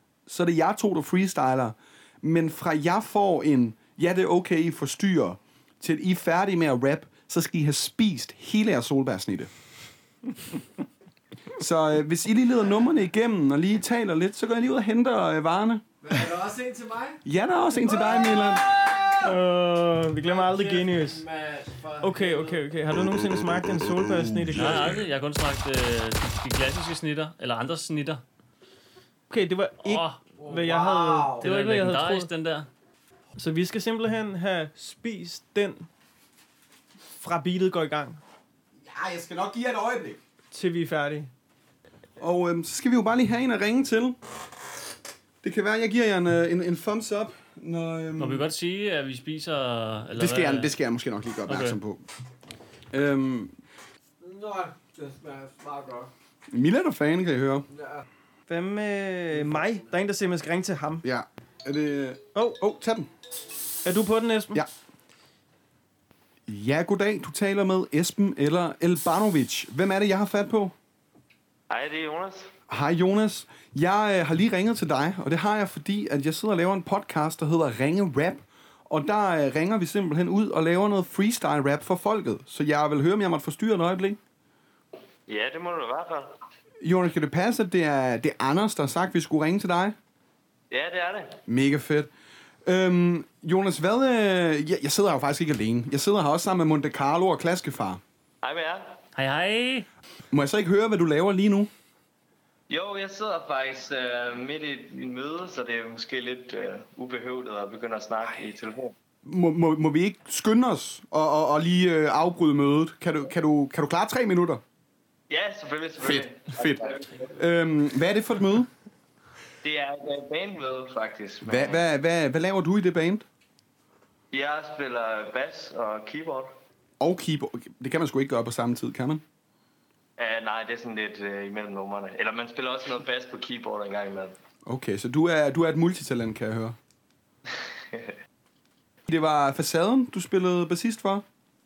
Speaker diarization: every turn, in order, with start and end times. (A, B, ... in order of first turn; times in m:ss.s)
0:00.3-0:09.5 A
0:11.6-0:15.8 A
0:16.0-0:17.2 B
0:17.2-0:18.6 A
0:19.2-0:21.2 C
0:20.2-0:22.6 B
0:22.0-0:24.9 C
0:24.4-0:24.9 A
0:24.5-0:28.2 D
0:29.3-0:32.3 C
0:29.8-0:30.2 D
0:30.4-0:31.5 B
0:31.4-0:32.7 D
0:33.4-0:35.9 C
0:37.2-0:38.2 C
0:38.8-0:40.2 A
0:40.5-0:41.3 C
0:42.2-0:44.2 A
0:45.4-0:48.4 A
0:48.2-0:50.7 D
0:50.2-0:52.0 A
0:51.5-0:51.8 D
0:52.9-0:53.5 A
0:54.2-0:56.1 B
0:56.5-0:57.7 A
0:57.7-0:58.0 B
0:58.5-1:01.0 C
0:59.5-0:59.8 B
1:01.0-1:03.1 A
1:03.8-1:04.6 C
1:06.5-1:10.7 A
1:11.7-1:12.5 E
1:12.7-1:24.2 A
1:25.3-1:26.3 E
1:26.8-1:30.0 A
1:30.7-1:31.4 E
1:31.5-1:32.1 A
1:32.6-1:38.0 A
1:38.4-1:39.0 E
1:39.2-1:39.8 D
1:40.3-1:41.7 A
1:42.7-1:48.9 E
1:49.2-1:54.6 A
1:55.3-1:57.3 E
1:56.0-1:58.7 A
1:59.6-2:01.8 E
2:01.4-2:03.2 A
2:04.3-2:06.5 E
2:07.0-2:09.2 A
2:10.2-2:14.3 E
2:14.6-2:16.8 A
2:19.1-2:21.2 A